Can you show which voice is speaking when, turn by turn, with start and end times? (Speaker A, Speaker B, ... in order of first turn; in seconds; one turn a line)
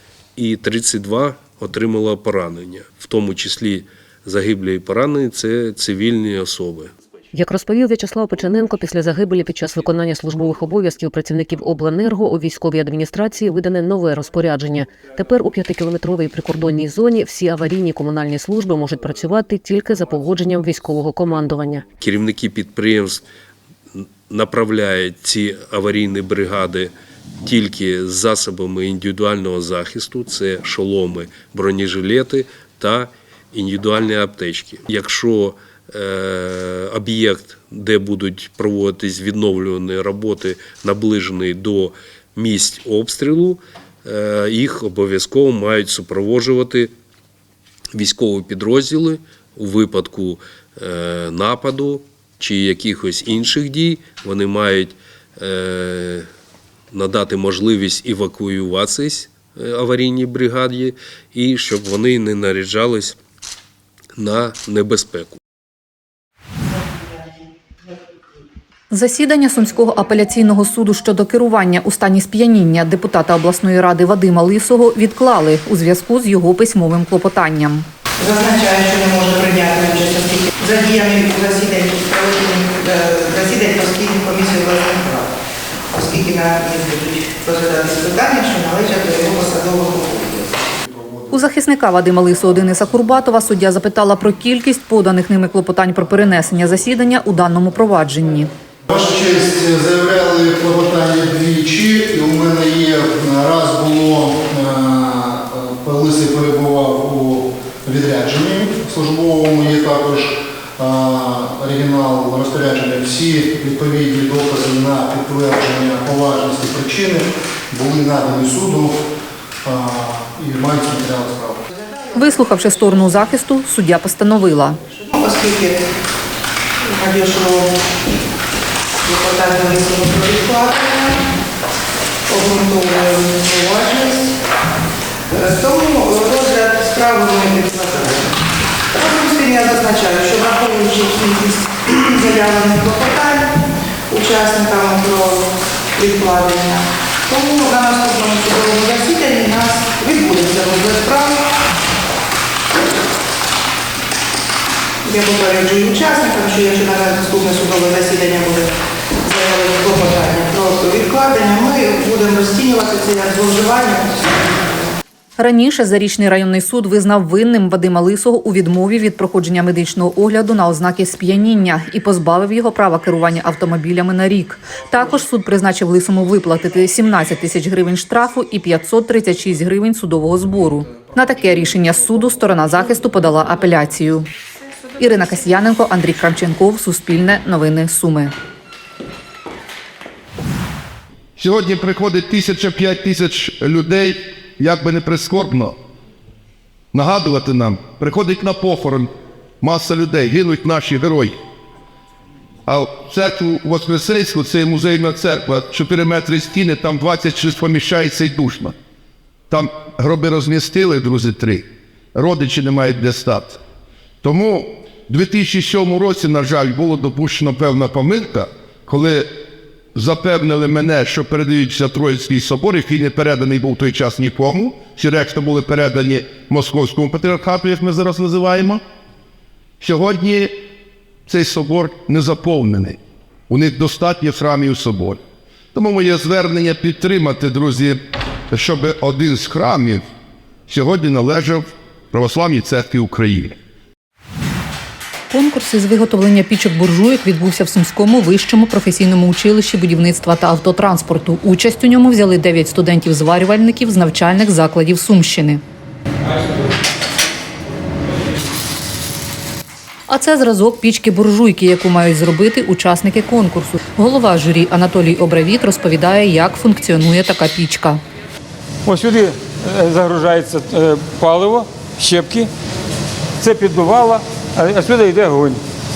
Speaker A: 0.4-6.9
Speaker B: 7.3-21.8
Speaker A: 22.0-23.2
Speaker A: 23.9-46.9
Speaker A: 47.9-56.3
Speaker A: 56.9-63.2
Speaker A: 64.2-65.4
Speaker C: 68.9-77.9
Speaker D: 78.2-85.3
Speaker D: 85.9-90.5
Speaker C: 91.3-98.5
Speaker E: 98.9-119.0
Speaker E: 119.6-121.6
Speaker C: 122.1-124.8
Speaker D: 125.1-125.8
Speaker D: 126.9-127.7
Speaker D: 129.0-131.2
Speaker D: 132.3-134.3
Speaker D: 135.3-138.3
Speaker D: 138.9-143.5
Speaker D: 144.1-151.4
Speaker D: 155.0-158.7
Speaker D: 159.2-164.6
Speaker C: 165.4-184.3
Speaker C: 185.0-188.3
Speaker F: 191.4-195.7
Speaker F: 196.9-199.1
Speaker F: 199.6-201.3
Speaker F: 202.7-208.7
Speaker F: 209.5-211.6
Speaker F: 212.1-213.6
Speaker F: 214.2-219.3
Speaker F: 219.9-228.8
Speaker F: 229.8-230.5
Speaker F: 231.3-233.0
Speaker F: 233.5-235.2
Speaker F: 235.7-238.0
Speaker F: 238.5-240.0
Speaker F: 240.7-243.6
Speaker C: 245.3-255.6
Speaker C: 260.1-268.0
Speaker G: 268.9-272.5
Speaker G: 273.4-275.6